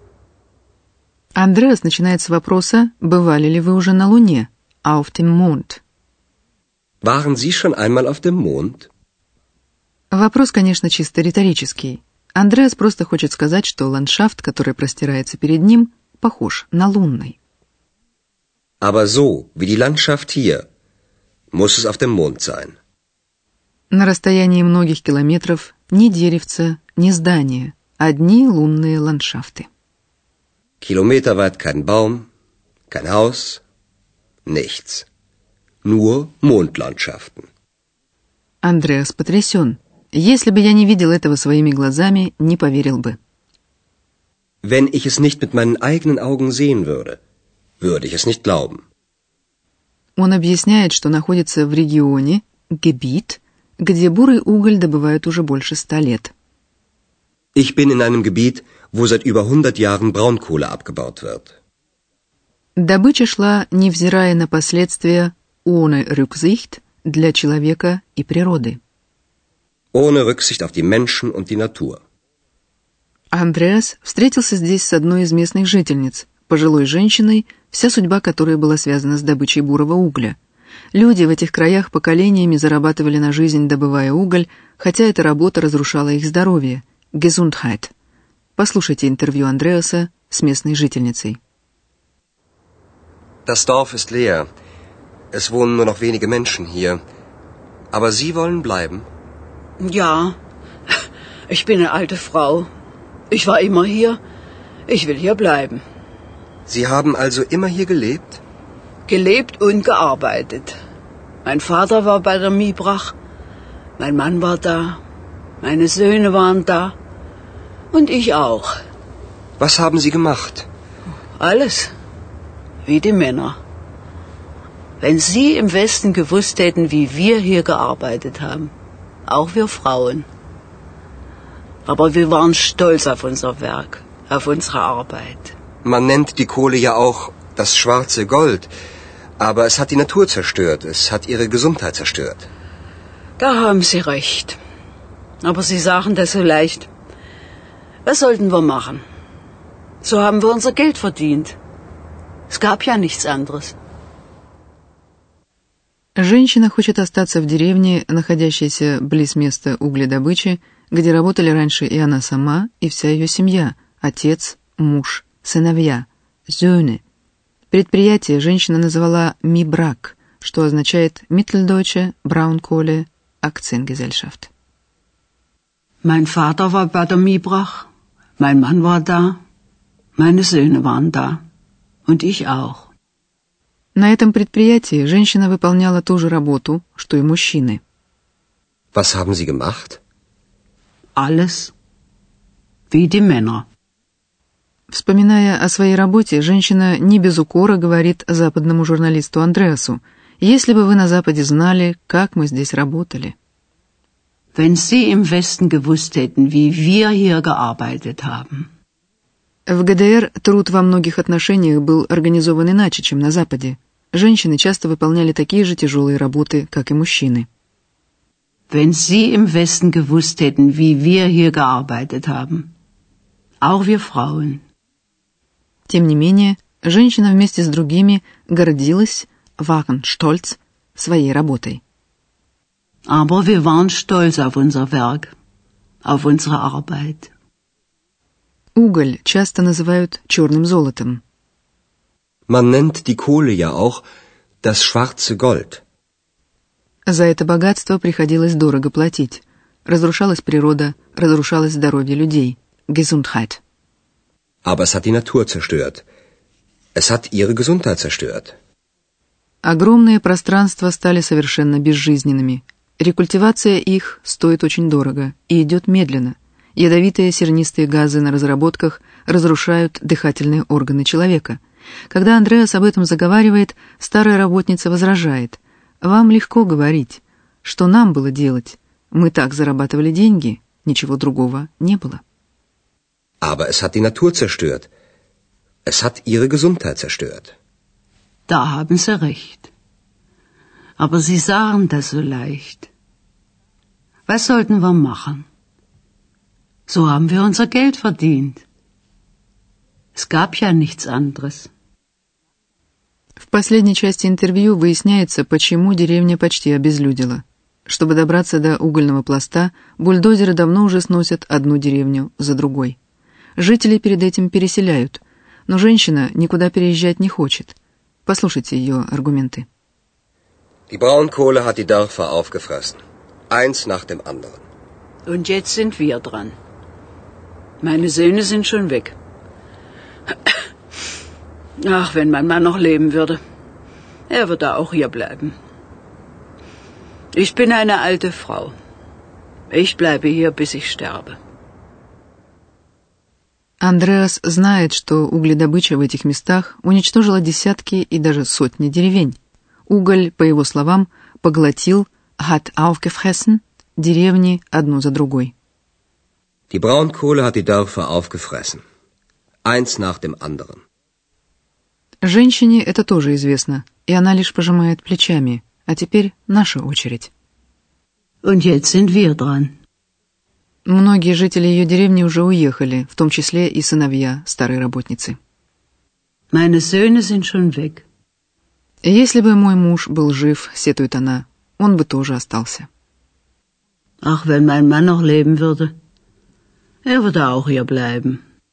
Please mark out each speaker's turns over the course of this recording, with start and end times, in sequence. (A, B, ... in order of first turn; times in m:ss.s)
0:01.4-0:05.8 A
0:07.0-0:08.9 B
0:10.1-0:17.4 A
0:18.8-0:20.6 B
0:21.5-0:22.8 B
0:23.9-0:29.7 A
0:30.8-0:32.3 B
0:32.9-0:33.6 B
0:34.5-0:35.1 B
0:35.8-0:37.5 B
0:38.6-0:43.2 A
0:44.6-0:47.2 B
0:47.8-0:48.8 B
0:50.2-0:56.3 A
0:57.6-1:01.5 B
1:02.8-1:08.8 A
1:09.9-1:12.0 B
1:13.3-1:20.4 A
1:20.9-1:27.9 A
1:28.6-1:31.4 A
1:33.5-1:34.5 B
1:35.3-1:37.0 B
1:37.9-1:39.1 B
1:39.8-1:40.3 C
1:41.5-1:42.7 C
1:43.3-1:44.2 C
1:44.9-1:45.8 C
1:46.7-1:48.4 B
1:49.1-1:50.8 C
1:51.4-1:53.2 C
1:54.0-1:55.0 C
1:55.6-1:56.9 C
1:57.9-1:58.7 C
1:59.6-2:00.7 B
2:01.4-2:01.9 C
2:02.9-2:03.6 C
2:05.0-2:08.7 C
2:09.3-2:10.2 C
2:11.9-2:15.6 C
2:15.8-2:18.7 B
2:19.4-2:22.5 B
2:23.4-2:24.6 C
2:25.4-2:26.9 C
2:28.0-2:29.0 C
2:30.0-2:31.6 C
2:32.5-2:33.8 C
2:36.2-2:47.0 A
2:47.7-2:54.5 A
2:56.0-2:57.9 C
2:58.4-2:59.4 C
3:00.2-3:01.4 C
3:02.1-3:02.9 C
3:03.9-3:07.8 A
3:08.9-3:10.0 B
3:11.2-3:11.7 C
3:12.9-3:13.6 C
3:14.9-3:23.4 A
3:24.6-3:28.7 C
3:29.7-3:37.5 A
3:38.7-3:42.7 C
3:43.6-3:44.6 C
3:45.9-3:51.8 A
3:53.1-3:55.3 C
3:56.0-3:57.3 C
3:58.8-4:01.2 A
4:02.5-4:04.0 B
4:04.6-4:05.8 B
4:07.1-4:13.6 A
4:14.6-4:16.0 B
4:17.0-4:18.6 B
4:19.6-4:42.2 A
4:43.4-4:44.9 B
4:45.9-4:47.5 B
4:48.5-4:49.7 C
4:51.0-4:52.9 C
4:54.3-4:55.4 C
4:56.9-4:58.6 C
5:00.1-5:01.7 C
5:03.4-5:13.0 A
5:13.6-5:19.7 A
5:20.9-5:24.6 B
5:25.2-5:26.6 C
5:27.8-5:29.1 C
5:31.8-5:33.4 C
5:34.3-5:35.6 C
5:37.4-5:38.8 C
5:39.7-5:41.4 C
5:43.8-5:55.5 A
5:56.7-5:58.8 B
5:59.6-6:00.8 B
6:02.2-6:07.3 A
6:08.4-6:09.7 C
6:10.8-6:15.4 A
6:16.5-6:18.0 C
6:19.0-6:22.9 A
6:24.2-6:25.9 C
6:27.0-6:28.4 C